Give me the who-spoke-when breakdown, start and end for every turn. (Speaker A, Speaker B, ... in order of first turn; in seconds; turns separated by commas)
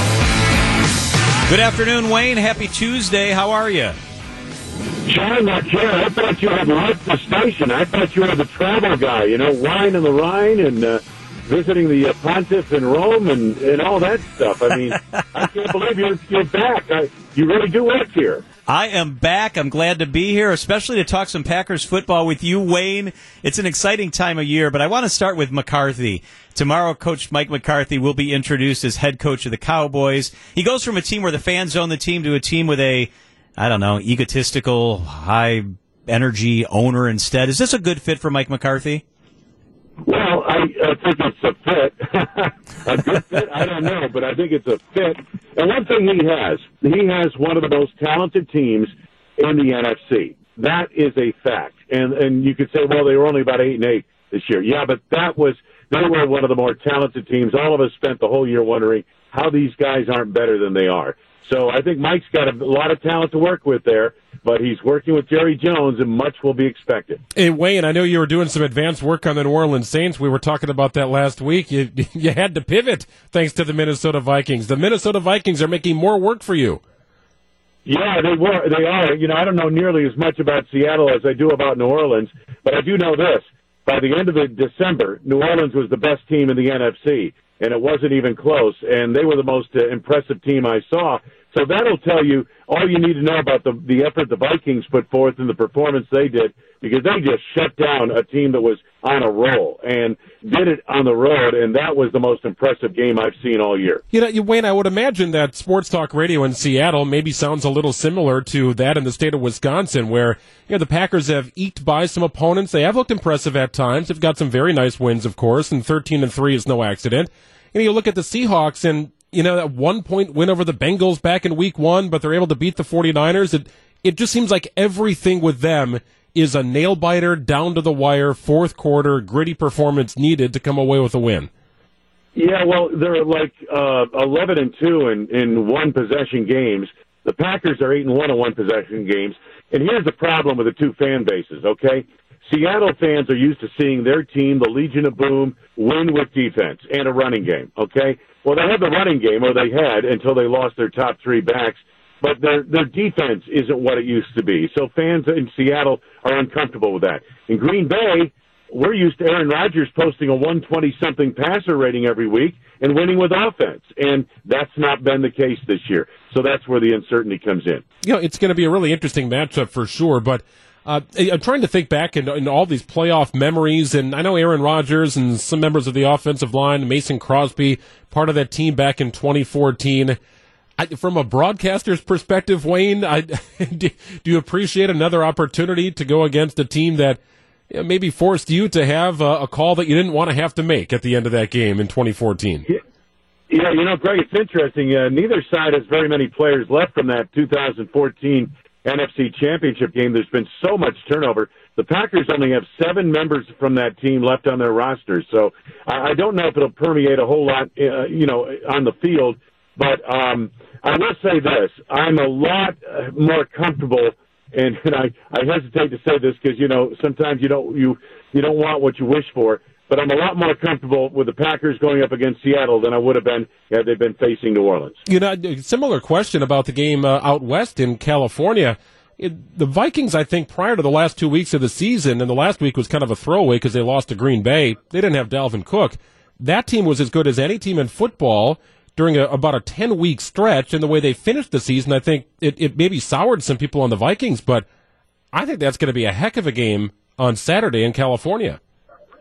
Speaker A: 1.5-4.0, Speaker B: 5.1-18.4, Speaker A: 18.7-39.0, Speaker B: 40.0-67.2, Speaker C: 67.3-76.8, Speaker B: 77.9-104.0, Speaker C: 104.1-131.5, Speaker B: 132.3-167.8, Speaker C: 168.0-180.2, Speaker C: 180.8-187.2, Speaker C: 187.7-192.7, Speaker B: 193.5-225.0, Speaker C: 225.1-244.7, Speaker C: 245.3-248.6